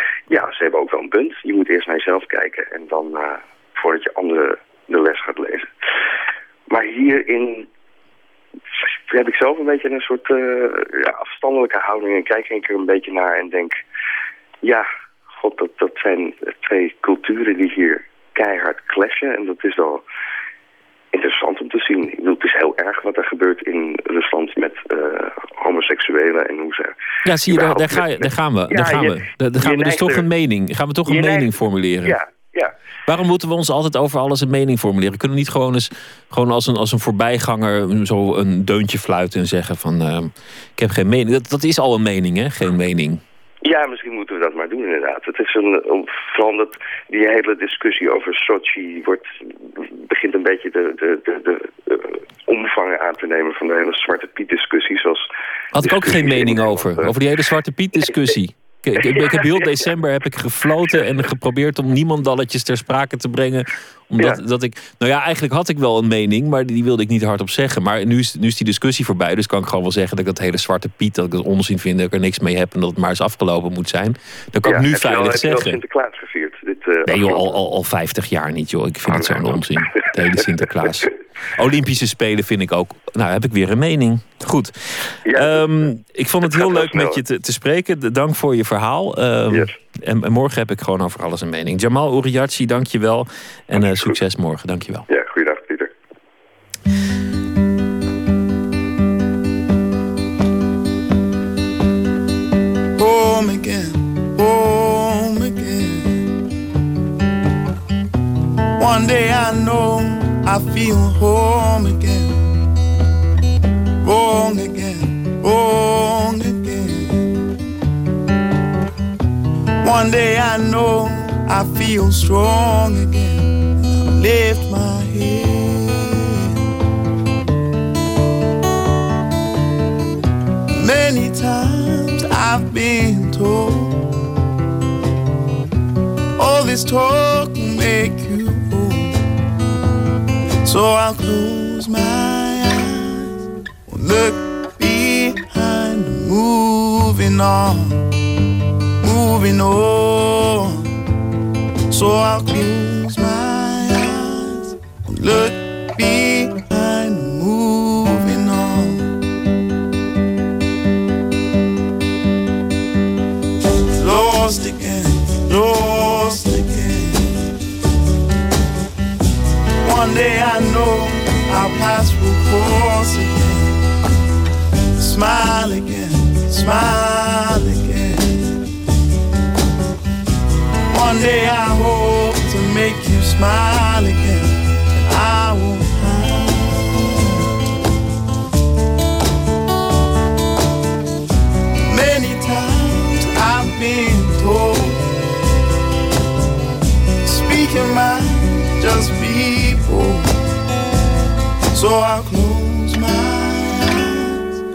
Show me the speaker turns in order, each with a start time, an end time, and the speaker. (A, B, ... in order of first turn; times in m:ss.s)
0:00.3-0:05.7 A
0:06.7-0:07.7 A
0:09.1-0:13.8 A
0:15.4-0:20.0 A
0:21.1-0:26.9 A
0:27.2-0:32.2 B
0:27.5-0:30.2 A
0:31.1-0:31.5 A
0:32.0-0:32.7 A
0:33.1-0:43.2 B
0:43.6-0:49.2 A
0:49.8-0:55.2 A
0:55.7-1:15.8 B
0:55.8-0:57.1 A
0:59.0-0:59.5 A
1:14.6-1:17.6 A
1:17.1-1:35.0 B
1:19.1-1:19.8 A
1:20.4-1:21.1 A
1:25.3-1:25.9 A
1:26.4-1:27.2 A
1:33.8-1:34.2 A
1:35.1-1:35.9 A
1:43.0-1:46.2 C
1:48.8-1:52.4 C
1:54.0-1:57.3 C
1:59.8-2:06.5 C
2:10.7-2:14.0 C
2:16.4-2:19.2 C
2:20.6-2:23.3 C
2:23.9-2:28.0 C
2:29.0-2:30.9 C
2:31.9-2:39.1 C
2:43.9-2:47.3 C
2:49.8-2:53.8 C
2:55.0-2:58.5 C
3:00.9-3:07.2 C
3:11.9-3:15.0 C
3:17.2-3:20.3 C
3:21.7-3:24.5 C